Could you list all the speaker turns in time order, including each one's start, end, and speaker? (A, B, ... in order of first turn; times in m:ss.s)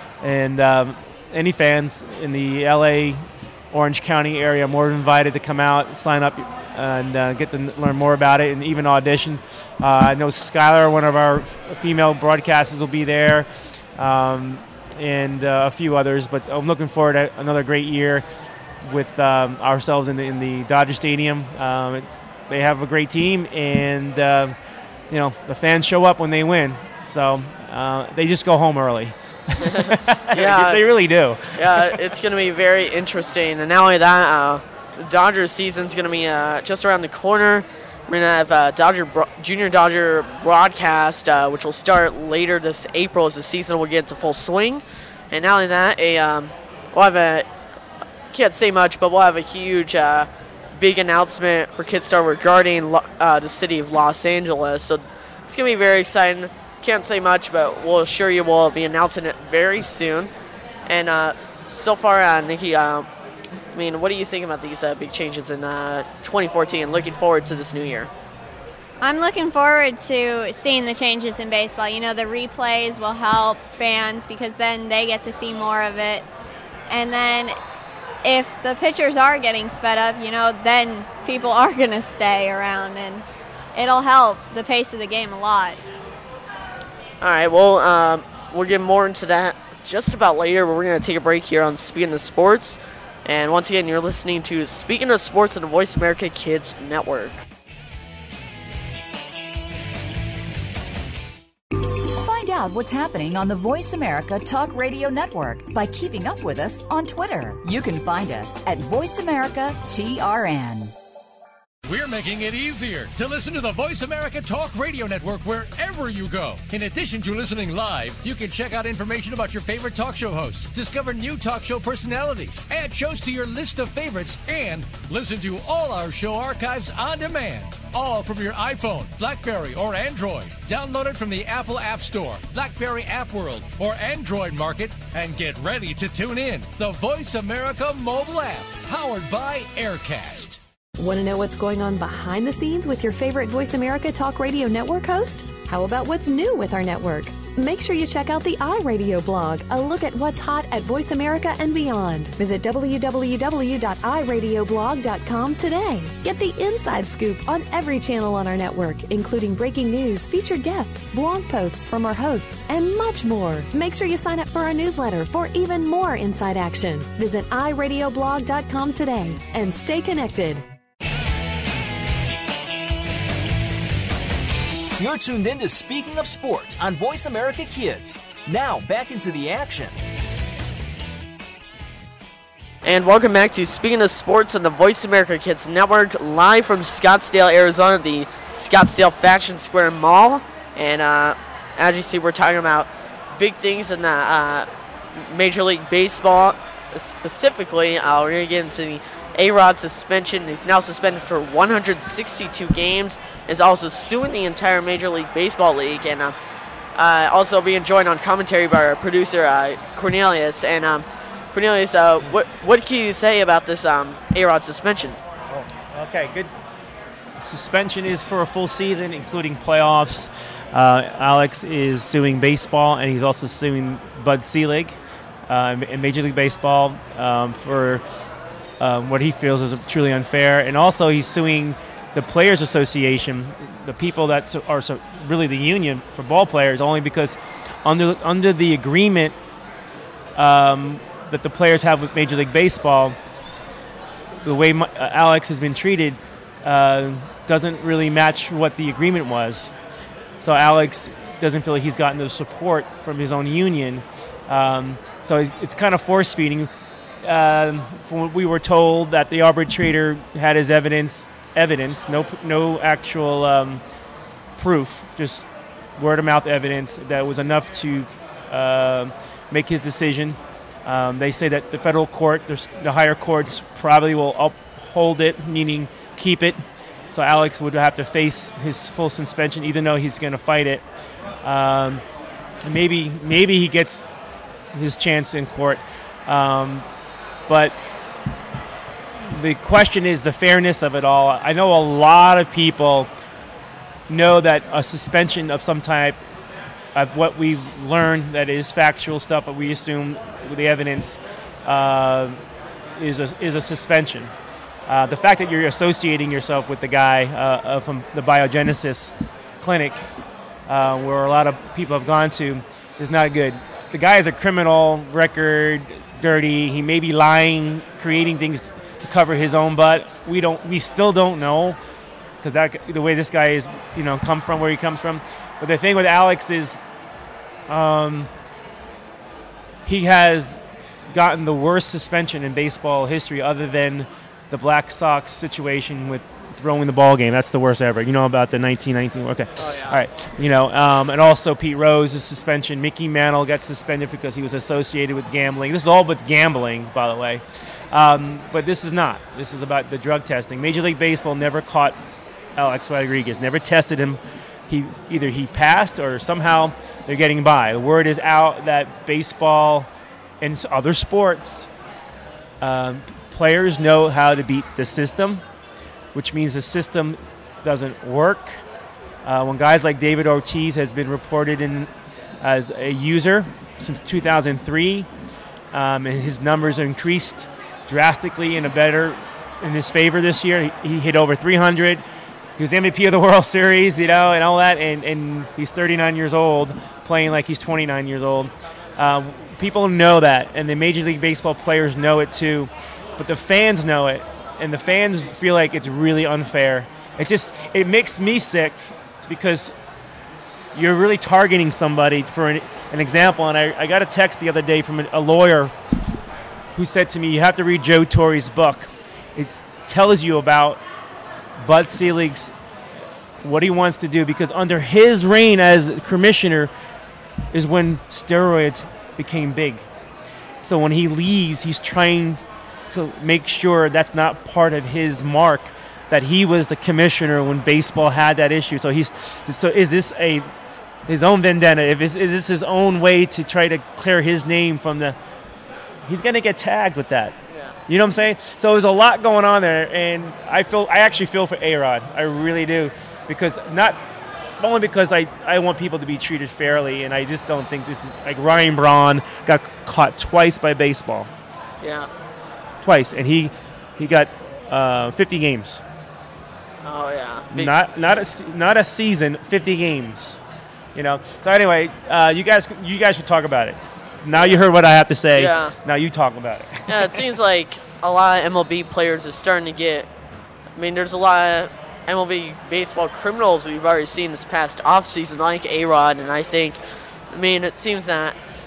0:00.2-0:18.2 A
0:18.8-0:24.5 A
0:25.1-0:32.0 A
0:29.6-0:30.8 B
0:31.6-0:47.4 B
0:48.3-1:00.3 B
1:00.8-1:03.1 B
1:03.7-1:08.1 B
1:09.0-1:16.3 C
1:16.9-1:17.5 C
1:18.2-1:25.8 C
1:27.2-1:37.4 B
1:41.9-1:50.9 D
1:51.9-2:20.6 E
2:21.0-2:50.6 F
2:55.0-2:59.9 G
3:02.8-3:26.3 B
3:27.0-3:35.2 B
3:35.5-3:36.5 A
3:37.4-3:48.0 A
3:48.8-3:59.4 A
4:00.4-4:03.2 A
4:04.4-4:09.7 A
4:10.4-4:16.7 A
4:17.2-4:23.8 A
4:24.6-4:25.4 A
4:26.0-4:40.8 A
4:41.4-4:42.0 A
4:42.6-4:44.0 A
4:44.7-4:46.8 A
4:47.5-4:47.8 A
4:49.2-4:53.1 A
4:54.1-4:56.2 A
4:56.9-5:02.4 A
5:03.0-5:04.3 A
5:04.9-5:10.1 A
5:10.7-5:21.8 A
5:22.4-5:26.8 A
5:27.7-5:28.3 A
5:29.8-5:30.6 A
5:31.1-5:52.0 A
5:39.6-5:40.0 B
5:52.6-5:59.9 A
6:00.4-6:01.7 A
6:02.6-6:05.4 A
6:06.1-6:08.6 A
6:09.2-6:11.9 A
6:12.4-6:15.1 A
6:15.7-6:22.0 A
6:22.6-6:39.7 A
6:40.7-6:45.7 A
6:46.7-6:50.8 A
6:51.6-6:52.5 A
6:53.4-6:56.7 A
6:57.5-6:59.8 A
7:00.6-7:02.4 A
7:02.9-7:10.5 A
7:11.1-7:15.2 A
7:16.1-7:17.4 A
7:17.9-7:24.0 A
7:24.6-7:31.3 A
7:31.8-7:32.1 B
7:32.8-7:35.8 A
7:36.8-7:37.7 B
7:37.5-7:40.4 A
7:40.9-7:47.2 A
7:44.4-7:44.6 B
7:45.4-7:45.8 B
7:46.9-7:50.1 B
7:50.8-7:56.8 B
7:57.3-7:58.4 B